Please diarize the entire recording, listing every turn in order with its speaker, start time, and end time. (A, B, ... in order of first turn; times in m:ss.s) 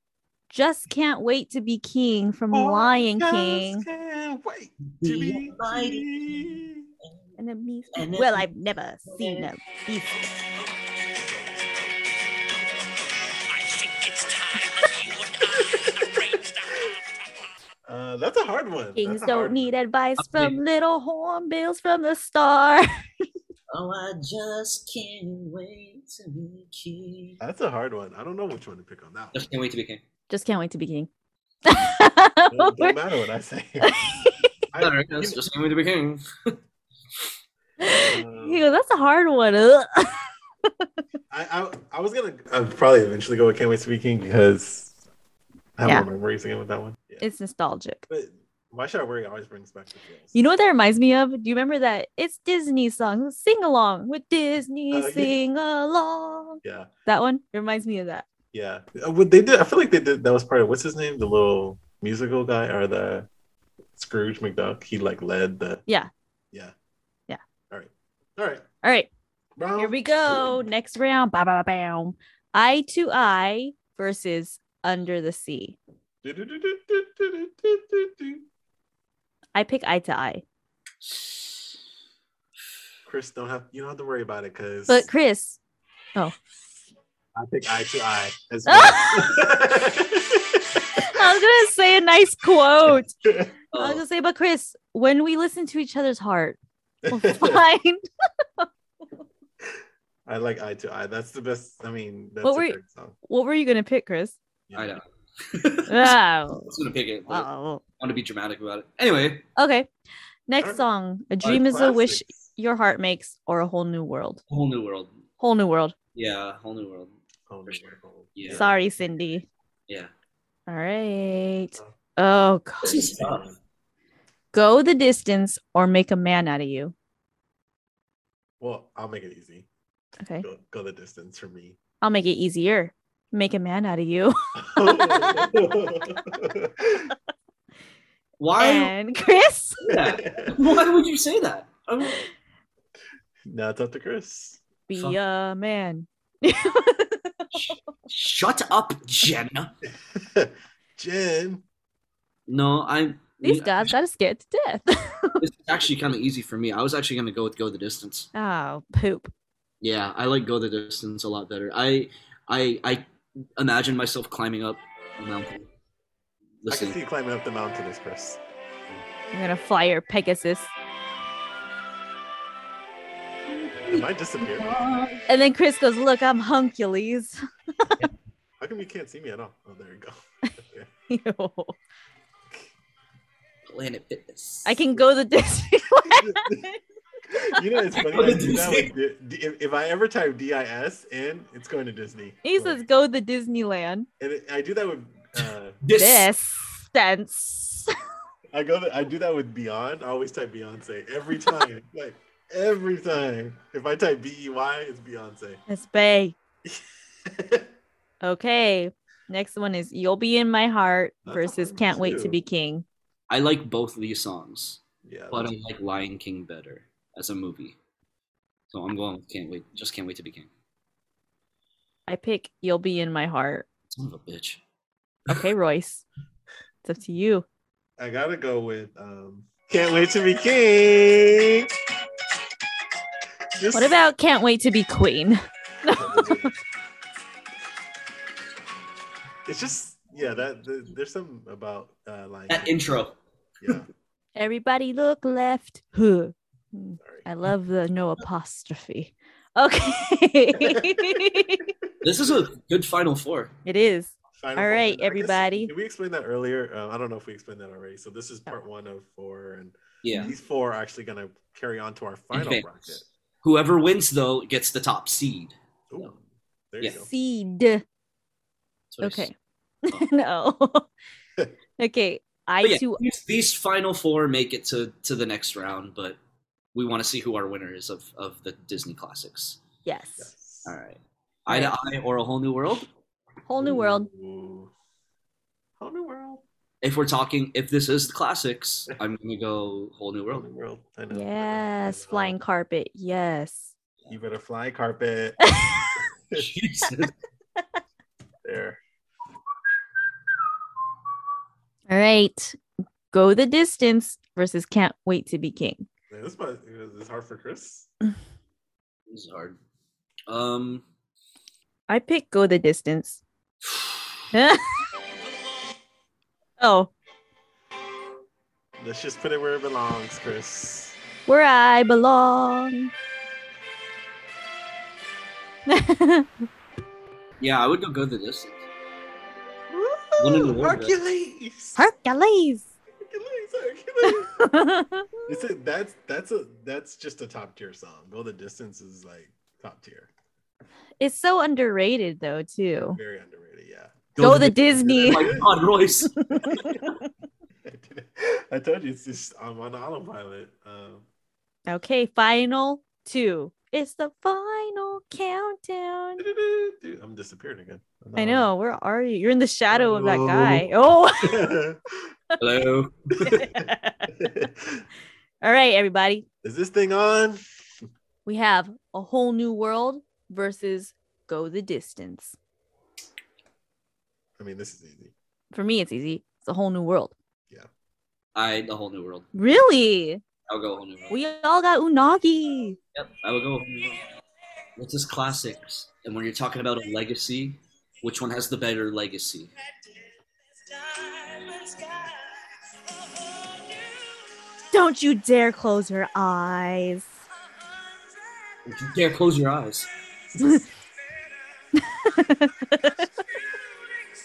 0:00.5-0:03.9 A
0:02.5-0:06.8 B
0:05.0-0:07.2 C
0:07.4-0:10.2 A
0:07.9-0:08.5 C
0:09.0-0:09.5 C
0:15.7-0:16.0 B
0:17.9-0:19.7 B
0:19.0-0:22.9 A
0:20.2-0:20.6 C
0:23.7-0:27.4 C
0:27.4-0:29.4 B
0:29.3-0:30.0 C
0:30.3-0:31.1 A
0:31.7-0:33.0 A
0:32.5-0:33.9 B
0:33.8-0:34.5 A
0:34.7-0:35.4 B
0:34.8-0:36.6 C
0:37.8-0:40.1 A
0:37.9-0:38.7 B
0:41.3-0:45.0 B
0:45.8-0:47.2 B
0:47.2-0:48.0 A
0:48.1-0:50.4 B
0:50.3-0:58.2 A
0:54.9-0:55.4 B
0:56.6-0:56.9 B
0:58.5-1:03.3 B
1:04.0-1:05.8 B
1:07.7-1:08.6 B
1:08.8-1:09.1 A
1:09.6-1:10.5 B
1:09.8-1:15.8 A
1:16.2-1:18.4 B
1:19.6-1:20.4 A
1:23.1-1:25.1 B
1:24.9-1:25.6 A
1:27.4-1:30.9 B
1:28.7-1:29.4 A
1:31.0-1:33.1 A
1:32.9-1:33.5 B
1:33.7-1:34.0 C
1:33.7-1:36.6 A
1:37.1-1:37.6 B
1:37.1-1:38.0 A
1:40.3-1:43.2 B
1:42.4-1:44.4 A
1:44.7-1:45.0 B
1:44.8-1:47.5 C
1:45.9-1:46.7 A
1:47.3-1:47.8 A
1:48.0-1:49.5 C
1:49.6-1:49.9 A
1:50.5-1:54.4 A
1:51.4-1:52.4 B
1:54.5-1:55.1 C
1:55.4-1:56.0 A
1:56.1-1:58.7 C
1:57.5-1:58.8 B
1:58.5-1:59.5 A
2:00.7-2:03.1 A
2:02.8-2:03.4 C
2:02.9-2:03.6 B
2:04.5-2:06.9 A
2:08.6-2:09.7 B
2:10.2-2:10.5 A
2:10.4-2:11.8 B
2:12.0-2:15.5 A
2:14.6-2:17.1 B
2:18.4-2:18.9 C
2:18.6-2:19.8 A
2:19.9-2:22.2 C
2:19.9-2:20.9 B
2:23.5-2:24.6 B
2:24.9-2:27.4 A
2:27.5-2:29.7 C
2:30.1-2:31.6 B
2:32.5-2:34.0 C
2:33.4-2:35.4 A
2:35.4-2:38.3 C
2:38.3-2:39.3 A
2:39.8-2:45.7 C
2:46.6-2:47.0 C
2:46.7-2:48.4 B
2:49.3-2:50.7 A
2:53.5-2:55.2 C
2:53.9-2:54.7 B
2:55.3-2:58.1 A
2:58.6-3:00.9 B
3:01.1-3:01.8 A
3:03.7-3:04.9 C
3:04.6-3:06.8 A
3:06.1-3:06.7 B
3:07.4-3:12.8 B
3:07.9-3:08.9 C
3:12.4-3:14.1 A
3:14.2-3:15.8 B
3:15.4-3:16.3 C
3:16.0-3:17.9 A
3:18.5-3:25.6 B
3:25.7-3:26.4 A
3:27.3-3:27.6 B
3:28.2-3:32.8 A
3:31.2-3:32.4 B
3:33.3-3:37.8 C
3:35.0-3:35.5 B
3:38.7-3:40.5 C
3:42.1-3:43.7 A
3:43.9-3:44.6 C
3:45.3-3:46.0 A
3:46.8-3:47.5 A
3:48.0-3:51.7 B
3:53.5-3:54.0 B
3:53.7-3:56.5 A
3:55.9-3:56.6 B
3:59.5-4:02.8 B
4:02.5-4:03.2 C
4:03.6-4:03.9 B
4:04.4-4:11.7 A
4:07.0-4:07.3 B
4:10.7-4:11.4 B
4:11.9-4:12.5 B
4:12.0-4:13.5 C
4:13.6-4:15.7 A
4:14.4-4:23.1 B
4:20.0-4:20.3 C
4:22.3-4:26.1 C
4:25.9-4:27.1 B
4:27.0-4:27.8 A
4:28.9-4:29.3 C
4:29.0-4:29.3 A
4:29.9-4:30.9 A
4:31.8-4:33.0 A
4:32.6-4:36.2 C
4:36.7-4:39.6 C
4:39.8-4:40.3 A
4:40.2-4:40.8 B
4:40.6-4:42.9 C
4:43.5-4:44.1 A
4:43.6-4:44.7 B
4:45.8-4:46.4 B
4:46.8-4:50.4 C
4:50.3-4:52.4 B
4:51.1-4:53.7 A
4:54.1-4:55.4 B
4:55.5-4:56.0 A
4:56.4-4:57.1 C
4:58.4-4:58.8 B
5:01.9-5:02.6 A
5:03.1-5:05.9 A
5:06.1-5:07.9 B
5:09.1-5:09.6 C
5:10.3-5:10.8 C
5:11.9-5:13.2 A
5:14.3-5:14.8 A
5:16.6-5:16.9 A
5:18.8-5:21.0 B
5:21.3-5:22.9 A
5:25.7-5:26.3 A
5:27.4-5:28.6 C
5:29.7-5:31.9 B
5:30.2-5:31.0 C
5:31.8-5:32.7 A
5:33.1-5:34.4 B
5:34.1-5:35.4 A
5:35.3-5:40.1 B
5:41.0-5:43.0 A
5:42.8-5:45.4 B
5:44.2-5:46.9 C
5:44.2-5:45.3 A
5:46.2-5:47.0 A
5:47.7-5:51.1 B
5:51.7-5:56.2 A
5:56.2-5:58.5 B
5:58.2-6:01.6 A
5:59.7-6:00.7 B
6:01.2-6:01.8 B
6:02.4-6:03.2 C
6:03.2-6:04.5 A
6:03.3-6:03.7 B
6:04.2-6:04.8 B
6:05.4-6:06.2 A
6:06.4-6:07.4 B
6:08.2-6:12.4 A
6:14.4-6:15.1 B
6:15.5-6:17.1 A
6:18.4-6:19.3 C
6:19.3-6:20.2 A
6:20.5-6:21.2 C
6:21.1-6:22.8 A
6:23.0-6:24.0 C
6:24.8-6:29.5 C
6:34.7-6:37.1 A
6:38.6-6:39.9 C
6:40.4-6:40.7 A
6:41.8-6:43.0 A